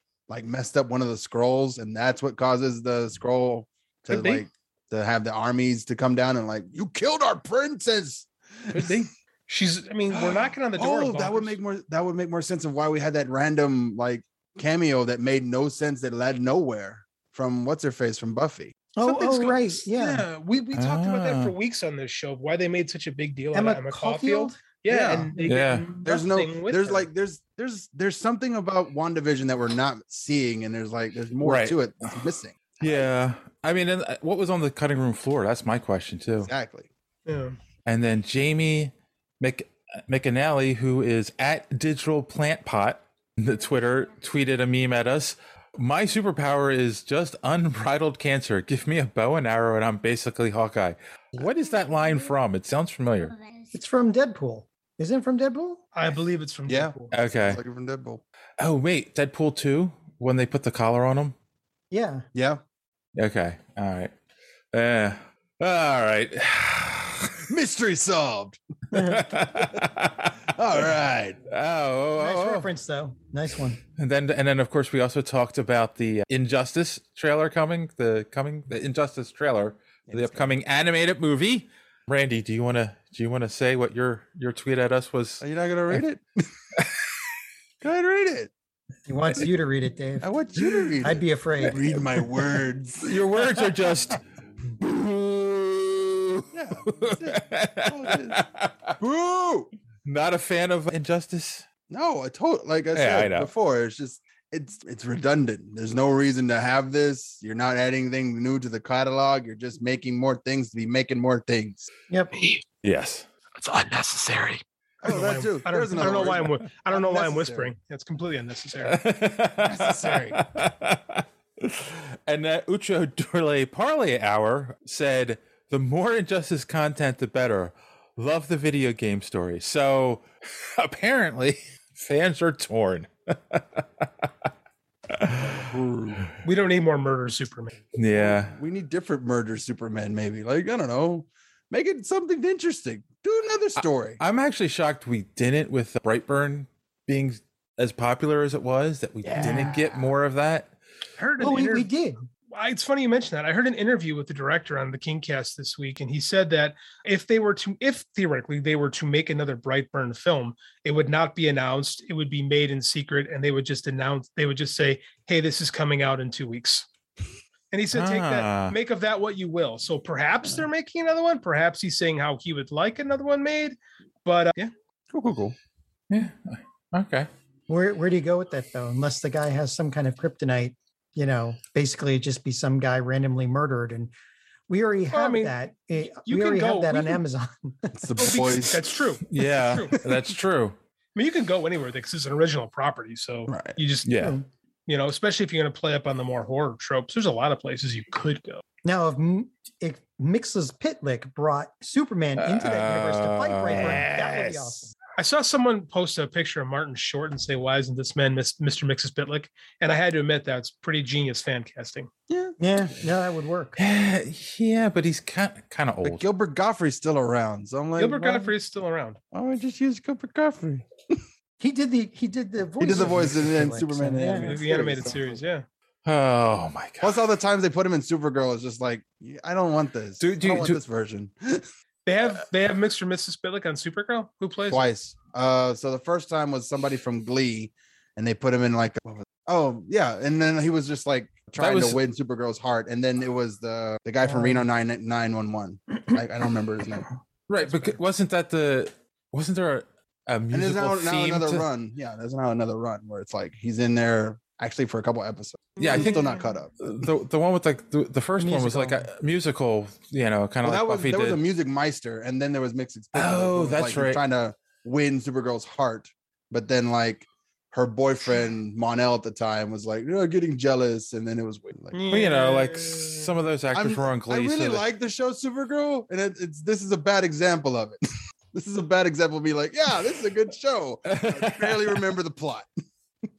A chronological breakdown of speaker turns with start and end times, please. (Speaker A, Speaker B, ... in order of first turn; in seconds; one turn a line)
Speaker A: 0.3-9.0
Speaker B: 4.1-4.5
Speaker B: 8.7-11.6
Speaker A: 10.1-18.8
Speaker C: 19.0-20.2
Speaker B: 19.0-27.1
Speaker D: 20.7-21.6
Speaker C: 23.5-25.5
Speaker A: 24.9-25.3
Speaker D: 25.4-25.9
Speaker A: 26.0-33.0
Speaker D: 31.4-32.1
Speaker D: 32.8-36.5
Speaker A: 36.4-36.9
Speaker B: 37.2-37.6
Speaker D: 37.8-53.4
Speaker C: 53.7-55.8
Speaker B: 55.9-57.1
Speaker A: 56.7-58.2
Speaker D: 57.1-57.6
Speaker D: 58.6-61.3
Speaker C: 61.9-62.2
Speaker A: 62.3-62.6
Speaker D: 63.1-64.1
Speaker D: 64.7-67.4
Speaker A: 67.5-68.6
Speaker C: 68.9-69.2
Speaker D: 68.9-70.4
Speaker A: 70.5-71.4
Speaker D: 71.5-72.7
Speaker C: 72.2-73.8
Speaker D: 74.0-86.0
Speaker A: 80.1-80.5
Speaker A: 85.4-86.2
Speaker A: 87.8-88.5
Speaker C: 89.1-90.3
Speaker A: 90.2-93.2
Speaker D: 90.6-90.9
Speaker C: 91.0-91.8
Speaker D: 93.0-94.2
Speaker D: 94.9-96.1
Speaker A: 96.5-98.4
Speaker D: 96.8-98.9
Speaker A: 99.0-99.7
Speaker D: 100.0-101.7
Speaker A: 101.9-111.9
Speaker D: 102.9-103.5
Speaker D: 112.8-113.3
Speaker B: 113.6-119.0
Speaker A: 115.0-117.7
Speaker D: 118.8-134.3
Speaker A: 119.6-120.4
Speaker D: 135.1-135.5
Speaker A: 135.4-136.2
Speaker B: 136.4-137.7
Speaker D: 137.9-138.5
Speaker A: 138.2-144.2
Speaker D: 143.8-150.7
Speaker A: 149.2-149.9
Speaker C: 149.4-149.8
Speaker B: 151.2-151.9
Speaker C: 151.4-152.2
Speaker B: 152.5-166.9
Speaker B: 167.7-174.7
Speaker D: 167.9-168.8
Speaker A: 175.1-175.5
Speaker D: 176.1-177.3
Speaker C: 177.7-184.1
Speaker C: 184.7-187.9
Speaker B: 185.1-185.5
Speaker B: 186.2-187.2
Speaker A: 188.0-189.0
Speaker B: 188.2-190.0
Speaker D: 189.3-190.8
Speaker B: 191.2-194.1
Speaker A: 193.5-193.8
Speaker D: 194.0-194.4
Speaker C: 194.2-194.4
Speaker B: 194.9-198.6
Speaker C: 198.8-204.9
Speaker D: 202.4-204.1
Speaker B: 203.7-212.1
Speaker A: 212.3-212.6
Speaker C: 212.6-213.8
Speaker D: 213.8-216.2
Speaker A: 216.0-218.5
Speaker B: 218.0-219.2
Speaker A: 219.3-221.2
Speaker C: 221.6-224.5
Speaker A: 222.8-225.4
Speaker B: 224.3-225.7
Speaker D: 226.0-227.2
Speaker A: 227.0-231.7
Speaker D: 230.2-230.8
Speaker B: 232.1-234.9
Speaker A: 234.7-247.1
Speaker D: 241.6-242.0
Speaker C: 244.2-244.6
Speaker D: 247.5-251.7
Speaker A: 250.5-256.7
Speaker B: 255.8-256.5
Speaker D: 255.8-256.2
Speaker D: 256.8-261.4
Speaker C: 258.4-259.1
Speaker A: 260.6-272.0
Speaker D: 263.1-264.2
Speaker B: 271.9-273.3
Speaker D: 272.1-274.9
Speaker A: 273.7-278.0
Speaker A: 278.5-282.7
Speaker D: 281.1-282.0